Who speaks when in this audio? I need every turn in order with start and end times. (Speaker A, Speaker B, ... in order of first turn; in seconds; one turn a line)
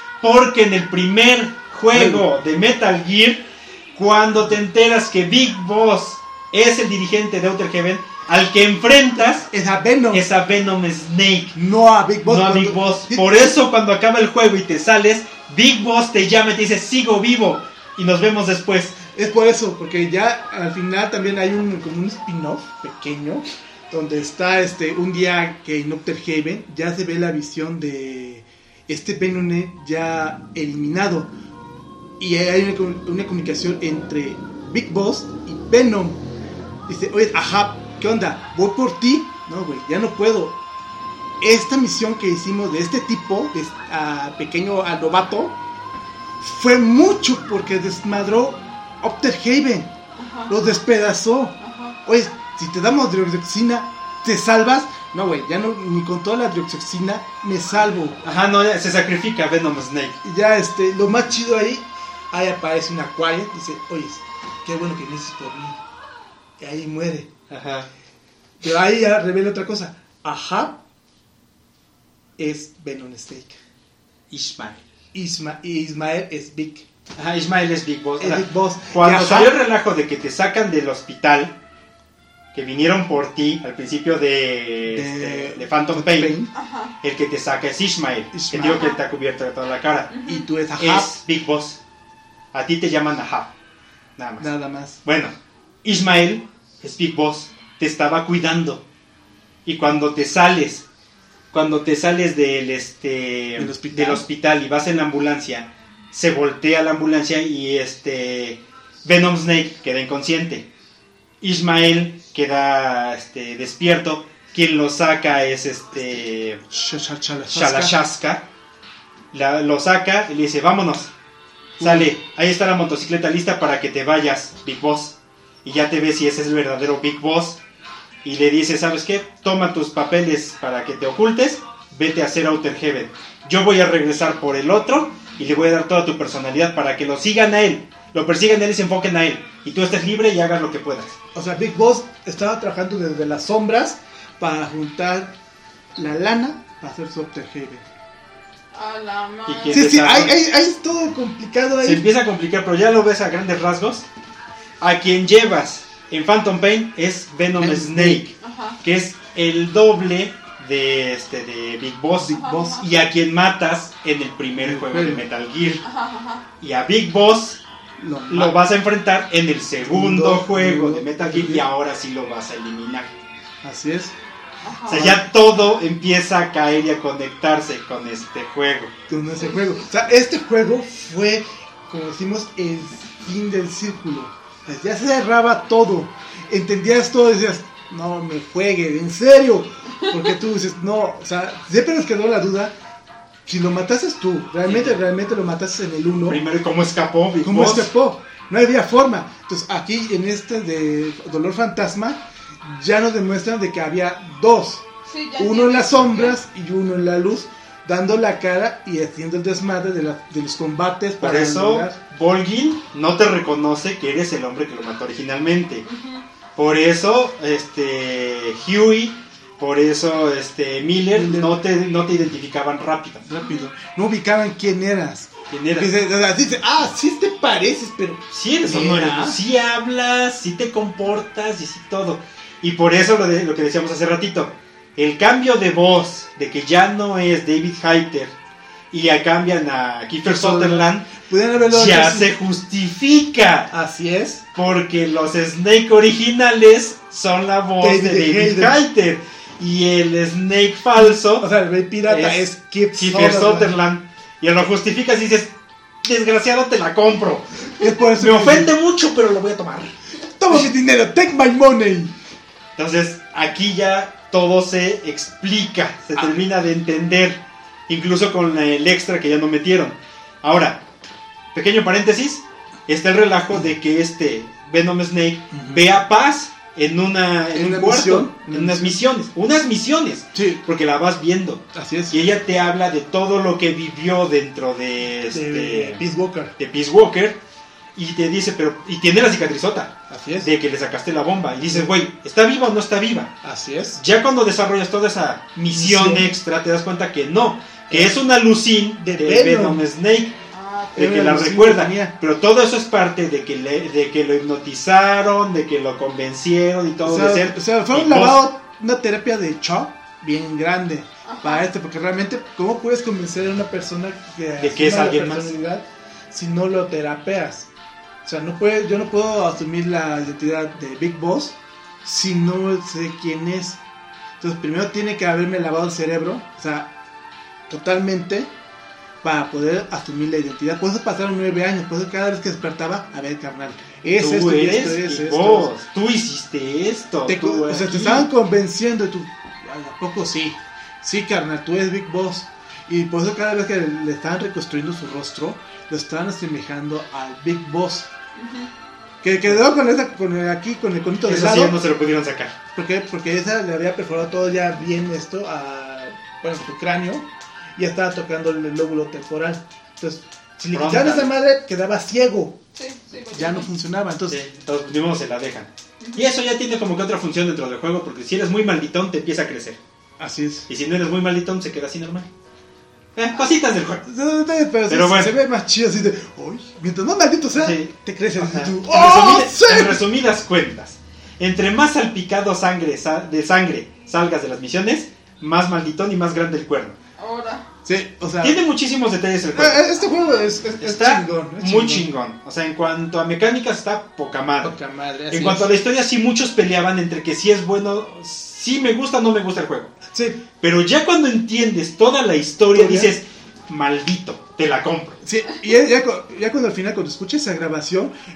Speaker A: 0.2-9.5
Speaker B: 1.9-2.2
Speaker B: 9.5-10.2
Speaker A: 10.1-11.6
Speaker B: 11.5-13.6
Speaker A: 12.2-19.0
Speaker B: 19.0-31.3
Speaker B: 32.2-36.2
Speaker B: 36.9-40.6
Speaker B: 41.4-45.5
Speaker B: 46.4-49.9
Speaker C: 50.2-50.5
Speaker B: 50.5-58.2
Speaker C: 51.6-52.0
Speaker A: 58.2-60.2
Speaker B: 60.2-65.8
Speaker B: 66.6-67.3
Speaker A: 67.5-67.9
Speaker B: 68.6-70.8
Speaker B: 72.4-73.6
Speaker A: 74.3-74.8
Speaker B: 75.1-76.9
Speaker A: 77.2-81.6
Speaker B: 78.2-79.6
Speaker A: 82.5-86.4
Speaker B: 84.9-86.5
Speaker C: 86.5-86.9
Speaker A: 87.0-90.2
Speaker B: 88.3-88.8
Speaker C: 88.6-89.0
Speaker C: 90.1-90.5
Speaker B: 90.2-91.1
Speaker A: 90.8-91.8
Speaker A: 92.5-93.5
Speaker A: 94.2-94.5
Speaker B: 94.4-95.0
Speaker A: 95.0-98.8
Speaker A: 99.6-100.8
Speaker A: 101.5-110.7
Speaker B: 103.6-104.2
Speaker A: 111.4-116.6
Speaker B: 116.7-118.0
Speaker A: 117.5-118.5
Speaker A: 119.3-121.1
Speaker B: 121.8-122.1
Speaker A: 121.8-127.6
Speaker A: 128.2-141.1
Speaker B: 141.3-145.3
Speaker B: 145.9-147.8
Speaker C: 148.7-149.8
Speaker A: 149.4-150.4
Speaker B: 149.7-152.1
Speaker A: 151.8-154.1
Speaker A: 154.8-165.8
Speaker B: 157.6-158.2
Speaker C: 158.4-158.8
Speaker B: 162.2-162.8
Speaker C: 162.3-162.9
Speaker B: 164.6-165.2
Speaker C: 165.8-166.5
Speaker A: 166.6-167.6
Speaker B: 168.0-168.6
Speaker A: 168.3-173.1
Speaker B: 169.8-171.7
Speaker B: 173.6-174.1
Speaker C: 174.6-175.2
Speaker A: 174.8-178.9
Speaker B: 179.1-192.7
Speaker B: 193.4-196.4
Speaker A: 194.6-195.0
Speaker A: 196.2-197.9
Speaker B: 197.4-204.8
Speaker C: 205.1-206.4
Speaker B: 205.4-212.0
Speaker A: 211.2-215.8
Speaker C: 215.8-216.2
Speaker A: 216.6-223.2
Speaker B: 221.1-221.6
Speaker B: 223.3-229.4
Speaker C: 223.4-223.7
Speaker A: 225.5-225.9
Speaker A: 228.3-238.3
Speaker A: 238.9-241.1
Speaker B: 240.2-242.3
Speaker A: 241.6-243.7
Speaker B: 243.7-244.4
Speaker A: 244.5-251.5
Speaker B: 247.8-248.8
Speaker B: 251.0-253.7
Speaker A: 252.1-259.9
Speaker B: 257.8-258.7
Speaker B: 260.4-262.1
Speaker A: 262.8-270.8
Speaker A: 271.5-286.0
Speaker B: 275.5-275.9
Speaker B: 277.5-279.0
Speaker B: 280.3-280.6
Speaker B: 281.7-282.2
Speaker B: 285.3-286.5
Speaker A: 286.6-287.4
Speaker A: 287.9-293.4
Speaker B: 290.1-290.5
Speaker B: 293.4-294.0
Speaker A: 294.0-300.3
Speaker B: 295.6-296.3
Speaker B: 297.9-298.2
Speaker B: 299.0-299.8
Speaker C: 300.5-300.9
Speaker B: 300.9-302.1
Speaker A: 300.9-308.4
Speaker B: 307.0-317.7
Speaker C: 311.2-311.6
Speaker A: 314.6-315.6
Speaker B: 318.2-323.8
Speaker B: 324.4-326.9
Speaker B: 327.7-328.5
Speaker B: 329.2-335.7
Speaker A: 334.2-338.3
Speaker B: 337.2-348.1
Speaker C: 348.4-348.7
Speaker B: 349.2-351.8
Speaker A: 351.2-352.6
Speaker B: 352.7-362.6
Speaker A: 360.7-361.3
Speaker C: 362.8-363.7
Speaker B: 363.3-364.4
Speaker A: 364.3-369.8
Speaker C: 366.0-366.3
Speaker B: 370.2-370.7
Speaker A: 370.7-372.3
Speaker A: 373.1-374.0
Speaker B: 374.1-380.0
Speaker A: 374.9-375.3
Speaker A: 377.6-386.9
Speaker C: 387.2-387.6
Speaker B: 387.8-388.6
Speaker A: 388.4-389.9
Speaker B: 389.5-392.1
Speaker A: 390.8-394.8
Speaker B: 394.6-395.7
Speaker A: 395.3-399.9
Speaker B: 400.1-400.4
Speaker A: 400.6-405.2
Speaker B: 402.7-403.1
Speaker B: 405.2-408.1